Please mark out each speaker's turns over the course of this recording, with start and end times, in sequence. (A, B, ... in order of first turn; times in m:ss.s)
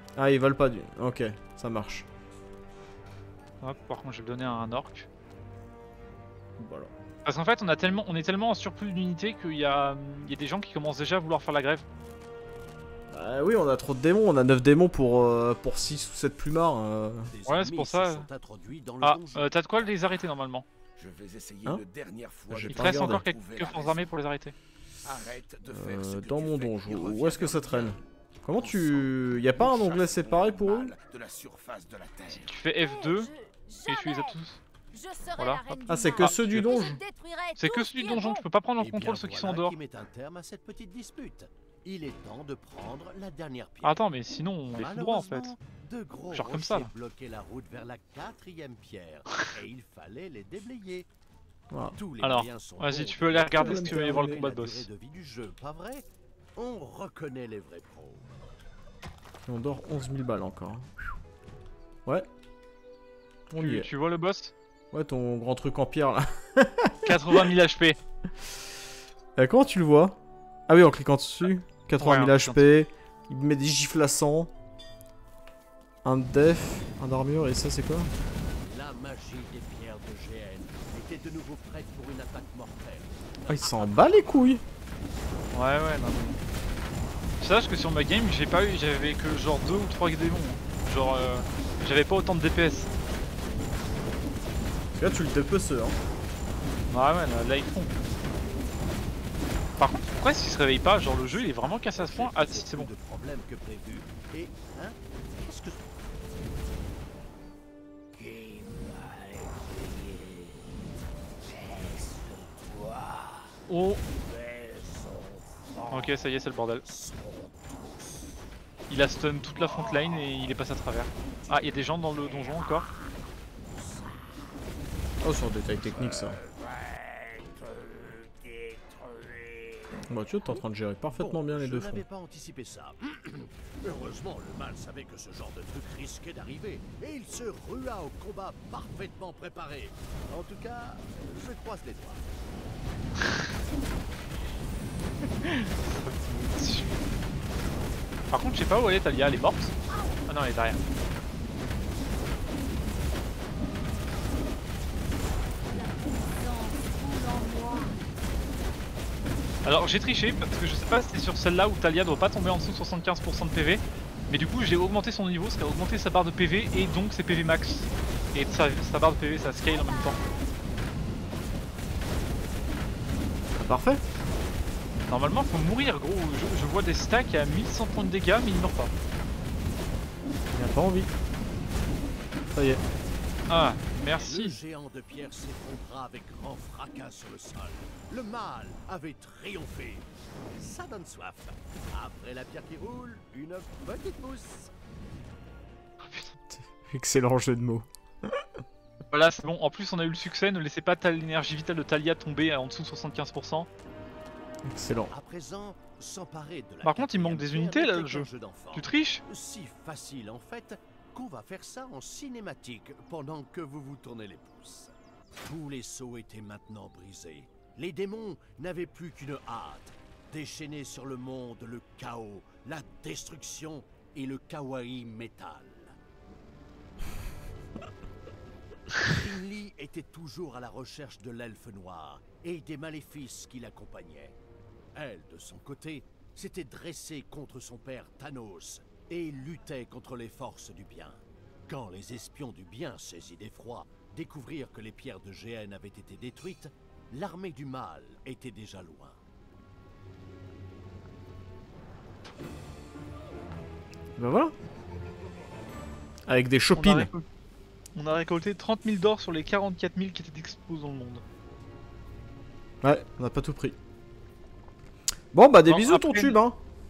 0:00.2-0:02.1 A
0:03.6-0:05.1 B
0:06.6-0:06.9 A
0:07.2-0:11.8 B
0:13.1-0:17.3 A
0:17.3-0:19.9 C
0:17.5-0:18.3 B
0:19.0-0:20.6 B
0:21.0-0:24.1 D
0:22.5-0:23.2 A
0:22.7-0:24.6 B
0:25.0-0:28.0 D
0:25.7-0:31.0 A
0:28.6-0:32.5 D
0:32.4-0:33.3 B
0:32.8-0:34.4 E
0:33.9-0:34.6 B
0:34.9-0:38.4 E
0:35.4-0:36.7 B
0:35.9-0:37.0 A
0:37.6-0:39.8 B
0:38.8-0:44.0 C
0:43.8-0:45.5 B
0:44.7-0:51.1 C
0:46.3-0:46.9 B
0:51.7-0:52.0 A
0:51.9-0:58.3 C
0:52.2-0:54.9 B
0:53.6-0:54.4 A
0:59.5-1:00.9 A
1:03.5-1:03.9 A
1:03.6-1:04.5 B
1:04.9-1:07.5 A
1:07.0-1:08.0 B
1:09.4-1:14.5 A
1:12.0-1:12.7 B
1:16.0-1:18.1 A
1:18.6-1:24.0 C
1:23.5-1:24.6 A
1:25.5-1:26.4 B
1:27.4-1:32.9 B
1:34.9-1:36.0 A
1:36.9-1:38.0 B
1:39.8-1:42.9 B
1:40.8-1:45.9 C
1:48.2-1:50.6 C
1:51.5-1:53.5 C
1:53.7-1:54.0 B
1:54.2-1:55.9 C
1:55.9-1:56.8 B
1:56.9-1:58.3 C
1:58.9-2:02.9 B
2:01.4-2:02.3 C
2:03.7-2:04.3 C
2:05.2-2:06.4 A
2:06.4-2:22.3 C
2:10.1-2:12.0 A
2:23.2-2:23.5 B
2:25.4-2:27.0 B
2:28.3-2:29.7 B
2:29.9-2:30.3 E
2:30.3-2:30.8 B
2:35.7-2:38.0 E
2:39.6-2:50.2 B
2:49.7-2:50.6 E
2:53.6-2:54.0 A
2:55.1-2:58.9 B
3:00.5-3:01.1 A
3:02.5-3:02.8 A
3:03.5-3:04.6 B
3:04.1-3:10.1 C
3:10.6-3:14.7 C
3:16.0-3:16.4 B
3:16.5-3:18.6 A
3:19.1-3:23.7 B
3:24.6-3:25.1 A
3:25.1-3:34.9 C
3:26.8-3:29.2 B
3:35.4-3:46.0 C
3:49.0-3:54.4 C
3:55.0-4:09.2 C
4:14.2-4:14.5 A
4:16.3-4:17.1 A
4:16.8-4:17.2 B
4:18.0-4:21.2 B
4:22.8-4:23.8 A
4:25.3-4:26.6 A
4:25.7-4:26.4 B